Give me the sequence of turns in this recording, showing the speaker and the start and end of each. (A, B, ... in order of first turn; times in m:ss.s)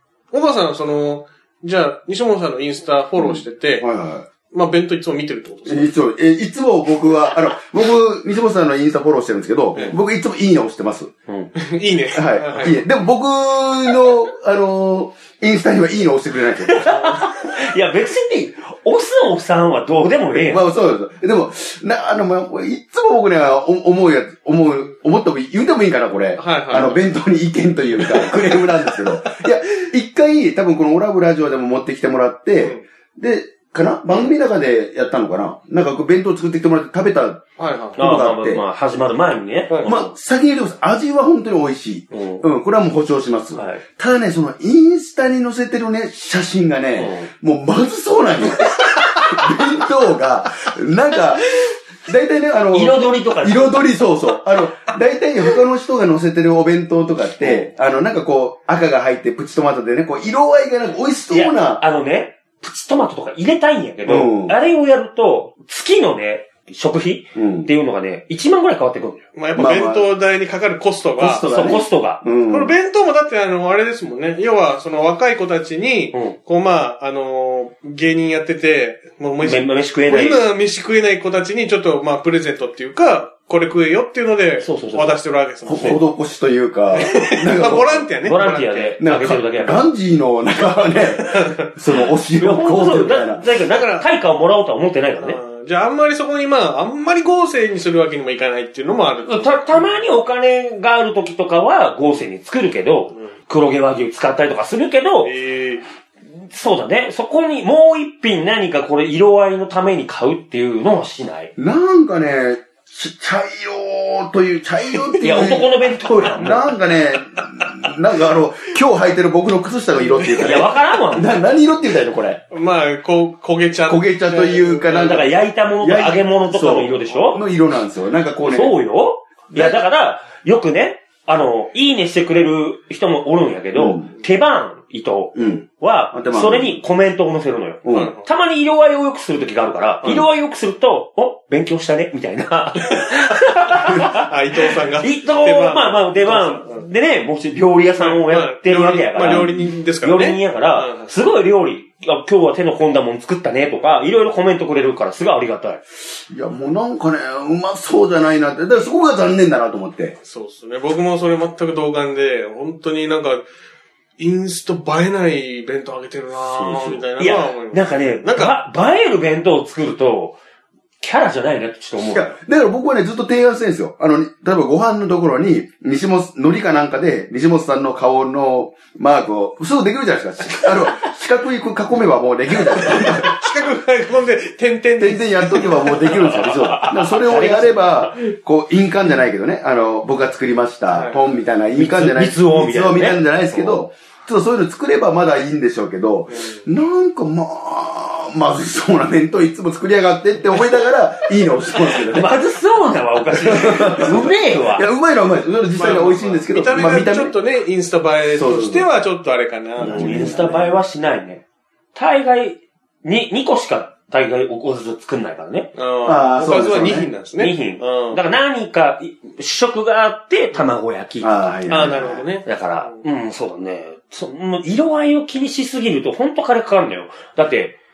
0:00.3-0:03.9 A
0:03.2-0:04.3 B
0:04.5-0:05.9 A
0:05.6-0:11.1 B
0:11.3-0:11.5 C
0:11.6-0:12.8 A
0:12.1-0:16.9 B
0:16.7-0:20.6 C
0:20.3-0:38.6 B
0:26.4-0:27.0 A
0:28.0-0:28.4 A
0:37.6-0:38.0 A
0:38.0-0:40.1 C
0:39.7-0:40.0 A
0:39.8-1:01.8 B
0:42.1-0:42.4 C
0:43.5-0:43.8 C
0:47.0-0:47.3 C
0:52.7-0:53.8 C
1:01.3-1:09.2 C
1:04.1-1:04.6 B
1:07.3-1:07.7 B
1:09.3-1:11.5 A
1:09.5-1:10.1 B
1:11.2-1:12.8 B
1:11.5-1:12.2 C
1:12.5-1:26.1 A
1:19.4-1:20.4 C
1:24.6-1:25.2 C
1:25.6-1:28.1 B
1:26.9-1:29.0 A
1:28.2-1:29.9 C
1:29.0-1:33.4 B
1:30.9-1:31.7 A
1:32.4-1:35.4 C
1:33.7-1:34.1 A
1:35.2-1:39.8 A
1:39.2-1:45.3 C
1:45.2-1:45.8 A
1:46.3-1:51.5 C
1:51.6-2:02.4 B
1:55.2-1:56.8 C
2:00.3-2:01.3 C
2:02.5-2:05.2 A
2:03.9-2:08.8 B
2:04.9-2:07.4 C
2:08.4-2:24.3 C
2:09.5-2:09.8 B
2:13.8-2:14.1 B
2:15.3-2:16.8 B
2:17.8-2:18.1 B
2:17.9-2:18.2 A
2:24.0-2:26.9 A
2:25.0-2:35.8 C
2:28.0-2:31.1 A
2:29.2-2:29.7 B
2:36.3-2:40.2 B
2:40.2-2:43.4 A
2:44.2-2:48.5 A
2:46.5-2:50.4 C
2:51.0-2:52.4 C
2:52.0-3:03.4 B
3:02.7-3:06.6 A
3:05.0-3:22.4 B
3:05.9-3:08.2 C
3:10.9-3:11.3 A
3:11.7-3:13.8 C
3:16.3-3:16.6 A
3:22.0-3:24.8 C
3:23.3-3:27.3 B
3:25.7-3:30.4 A
3:28.3-3:28.9 B
3:29.8-3:30.8 B
3:29.8-3:31.4 C
3:31.9-3:35.7 C
3:35.8-3:38.2 A
3:36.0-3:37.1 B
3:37.4-3:41.9 C
3:41.2-3:42.3 B
3:41.7-3:43.0 A
3:42.4-3:47.8 C